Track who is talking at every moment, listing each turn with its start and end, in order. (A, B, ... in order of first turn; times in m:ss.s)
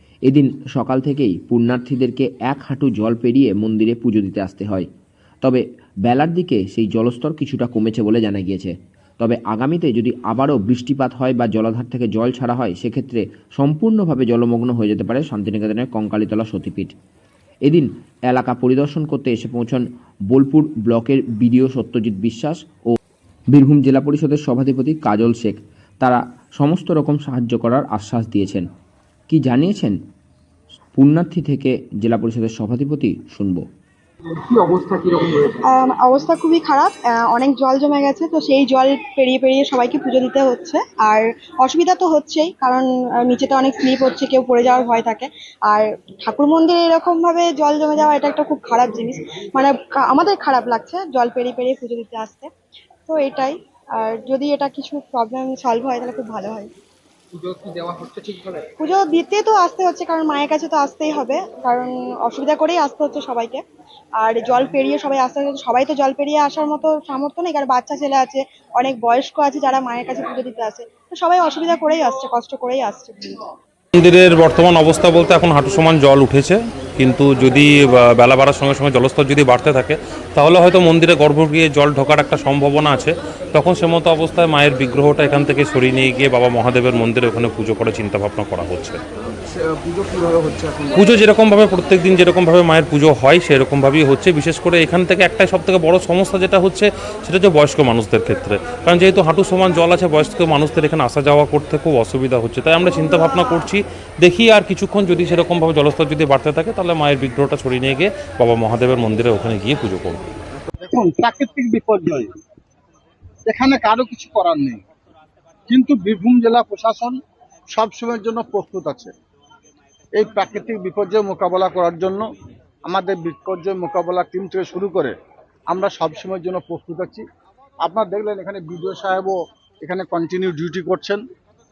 0:00.3-0:04.9 A
0:05.4-0:16.9 A
0:17.6-0:22.9 A
0:23.5-0:28.7 A
0:29.3-0:30.0 A
0:30.9-0:33.6 A
0:34.3-0:35.6 B
0:35.5-0:52.5 C
0:53.1-0:56.7 C
0:57.3-0:58.7 B
0:58.8-1:03.6 C
1:04.2-1:13.5 C
1:13.9-1:29.0 D
1:29.5-1:31.0 B
1:30.9-1:50.2 D
1:50.8-1:52.3 E
1:53.5-1:54.8 E
1:55.7-1:57.2 E
1:57.7-1:59.1 E
2:00.1-2:02.2 E
2:02.8-2:05.1 E
2:05.7-2:07.2 E
2:07.8-2:11.2 E